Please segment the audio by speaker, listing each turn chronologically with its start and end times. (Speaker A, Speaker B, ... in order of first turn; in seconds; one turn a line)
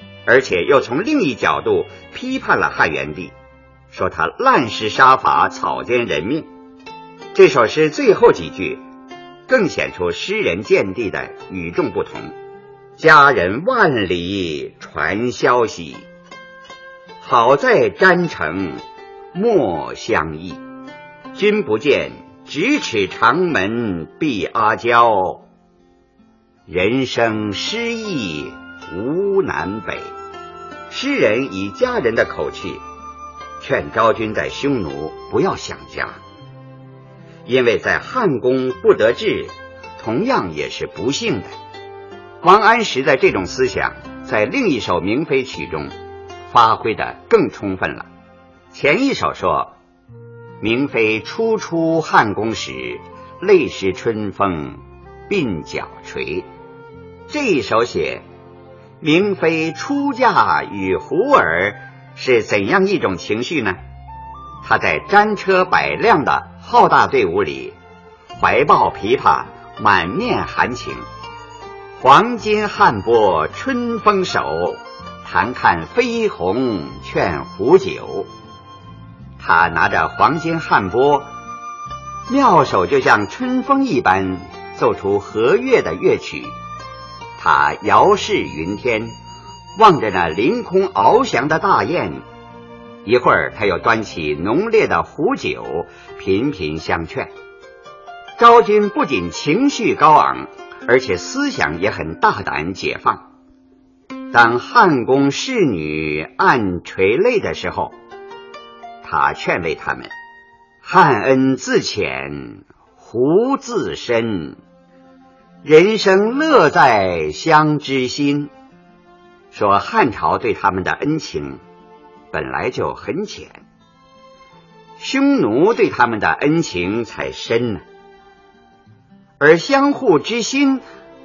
Speaker A: 0.2-3.3
Speaker A: 3.9-6.5
Speaker A: 7.3-8.8
Speaker A: 9.5-12.3
Speaker A: 13.0-16.0
Speaker A: 17.2-18.8
Speaker A: 19.3-20.6
Speaker A: 21.3-25.4
Speaker A: 26.7-30.1
Speaker A: 30.9-32.8
Speaker A: 33.6-36.2
Speaker A: 37.5-41.5
Speaker A: 42.4-45.9
Speaker A: 46.5-48.1
Speaker A: 48.7-49.7
Speaker A: 50.6-56.5
Speaker A: 57.3-58.2
Speaker A: 59.0-63.8
Speaker A: 64.6-67.7
Speaker A: 68.3-71.0
Speaker A: 72.0-78.3
Speaker A: 79.4-81.3
Speaker A: 82.3-86.5
Speaker A: 87.4-89.1
Speaker A: 89.8-92.2
Speaker A: 93.0-97.3
Speaker A: 98.4-103.2
Speaker A: 104.3-107.9
Speaker A: 109.0-110.1
Speaker A: 110.8-114.6
Speaker A: 115.6-118.5
Speaker A: 119.5-121.6
Speaker A: 122.3-123.6
Speaker A: 125.0-127.8
Speaker A: 129.4-130.8